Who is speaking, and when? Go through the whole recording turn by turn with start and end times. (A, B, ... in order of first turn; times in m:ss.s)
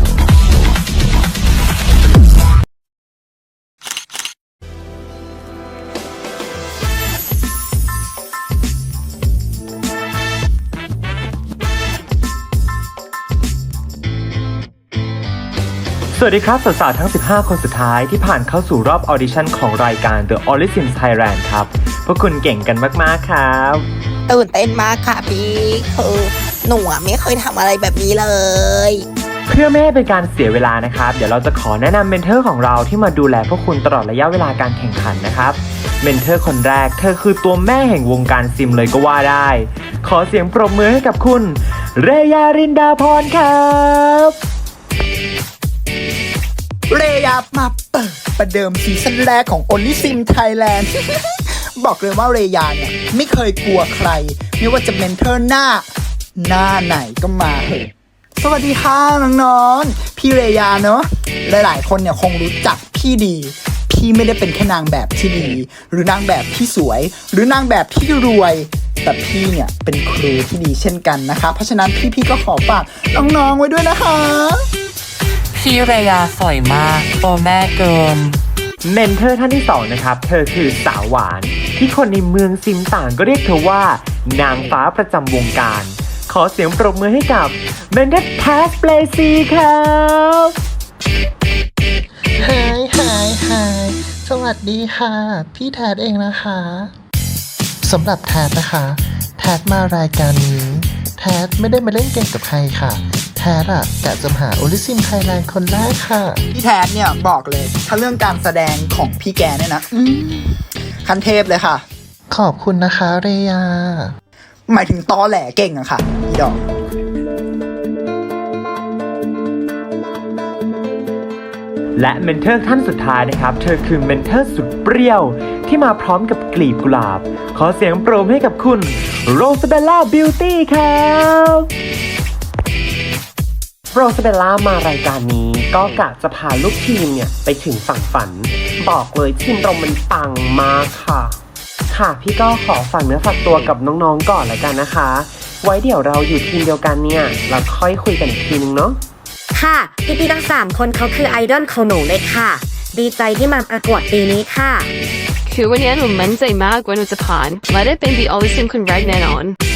0:16.1-0:23.9 A
0:24.3-0:29.0 B
0:29.5-0:44.3 A
0:46.9-1:14.7 C
1:15.5-1:18.4 D
1:18.8-1:30.5 A
1:32.4-1:36.9 E
1:37.8-1:46.4 E
1:46.5-1:51.8 C
1:52.3-1:54.1 E
1:54.7-1:56.7 C
2:02.0-2:11.7 A
2:13.9-2:21.4 A
2:21.9-2:29.0 A
2:29.5-2:34.9 F
2:35.4-2:39.6 G